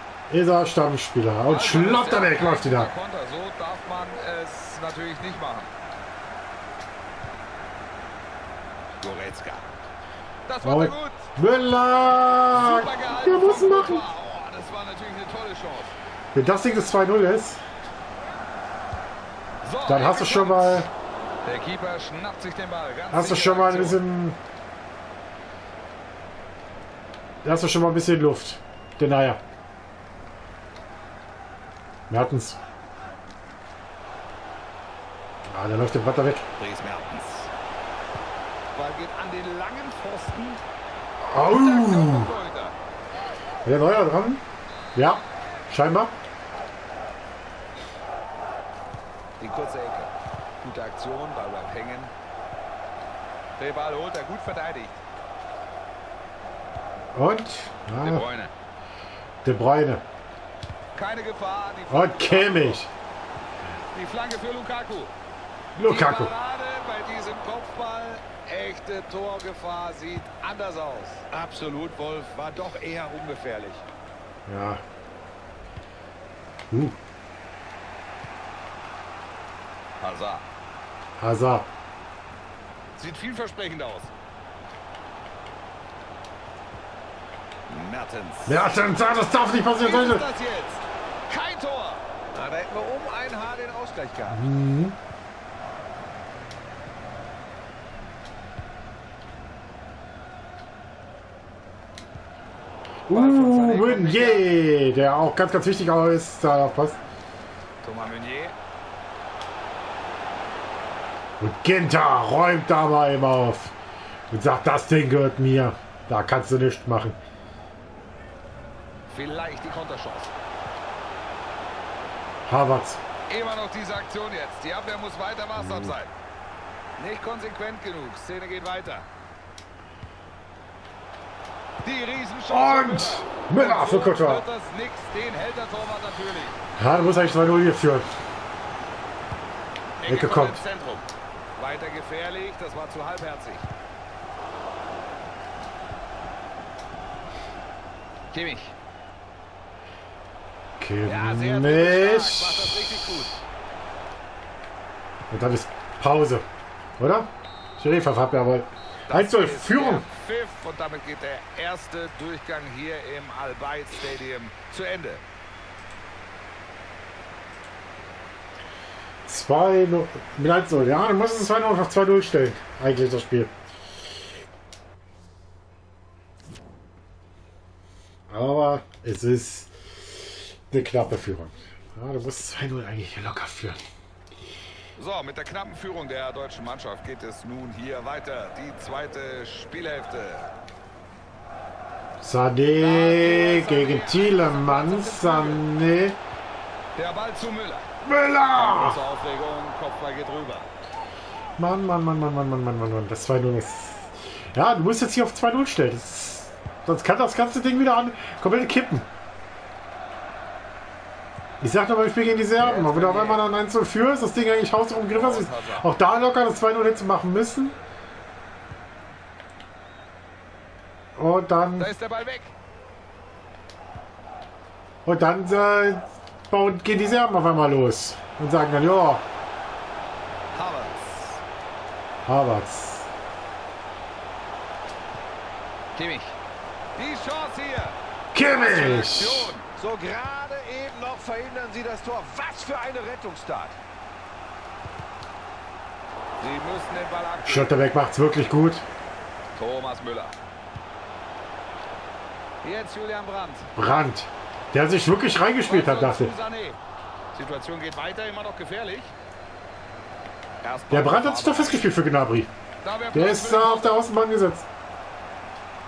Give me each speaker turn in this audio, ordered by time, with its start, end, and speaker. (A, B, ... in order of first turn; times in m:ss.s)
0:00.3-0:02.9 A
0:01.5-0:05.7 B
0:09.0-0:09.7 B
0:10.5-0:11.3 B
0:10.6-0:14.0 A
0:12.5-0:15.9 B
0:16.3-0:17.6 A
0:19.6-0:20.9 B
0:19.9-0:20.9 A
0:21.4-0:24.0 B
0:23.1-0:24.4 A
0:27.4-0:29.4 A
0:32.1-0:32.6 A
0:35.5-0:36.4 A
0:36.6-0:37.5 B
0:38.7-0:40.6 B
0:41.2-0:42.3 A
0:41.4-0:42.8 B
0:43.6-0:44.4 A
0:44.9-0:46.2 A
0:49.4-0:50.1 B
0:50.6-0:52.1 B
0:53.6-0:55.0 B
0:57.1-0:58.2 A
0:58.0-0:58.5 B
0:59.4-1:00.0 A
1:00.9-1:02.8 B
1:01.9-1:02.9 A
1:03.9-1:05.1 B
1:05.8-1:06.3 A
1:05.8-1:11.3 B
1:11.3-1:13.2 C
1:12.5-1:13.8 B
1:14.4-1:14.8 A
1:16.7-1:17.0 A
1:20.0-1:20.4 B
1:21.2-1:21.7 A
1:23.0-1:24.1 B
1:27.7-1:28.8 B
1:28.5-1:30.3 A
1:29.7-1:32.0 B
1:32.3-1:34.4 C
1:34.3-1:35.0 A
1:43.1-1:47.0 A
1:43.1-1:44.6 B
1:47.8-1:48.5 B
1:51.4-1:53.7 A
1:54.3-1:57.2 A
1:59.1-2:00.3 B
2:02.5-2:03.0 A
2:03.3-2:06.1 B
2:05.6-2:06.0 A
2:07.0-2:09.0 B
2:11.8-2:16.6 B
2:12.5-2:14.4 A
2:16.8-2:18.1 A
2:20.0-2:21.0 B
2:20.0-2:20.6 A
2:21.6-2:23.7 B
2:28.3-2:28.7 B
2:30.8-2:33.0 A
2:31.0-2:33.4 B
2:35.3-2:36.4 A
2:37.0-2:40.1 A
2:39.1-2:45.2 B
2:49.2-2:53.5 A
2:58.3-3:03.8 A
3:05.0-3:10.5 B
3:12.2-3:16.2 A
3:12.8-3:15.7 B
3:17.0-3:17.9 B
3:18.0-3:19.0 A
3:18.5-3:20.7 B
3:21.6-3:29.1 A
3:31.6-3:37.7 A
3:32.6-3:33.4 B
3:35.1-3:35.9 B
3:41.2-3:41.9 A
3:41.8-3:42.5 B
3:45.0-3:49.2 A
3:50.5-3:51.4 B
3:52.2-3:53.1 A
3:55.9-3:56.4 B
3:57.0-3:58.0 B
3:58.3-3:59.6 A
3:58.5-3:59.6 B
3:59.7-4:03.8 C
4:06.4-4:07.7 B
4:07.4-4:08.8 A
4:09.6-4:10.4 B
4:12.6-4:13.7 B
4:13.8-4:16.3 A
4:15.6-4:16.8 B
4:17.3-4:19.1 B
4:20.6-4:21.9 B
4:20.9-4:22.5 A
4:22.8-4:24.0 B
4:23.1-4:24.7 A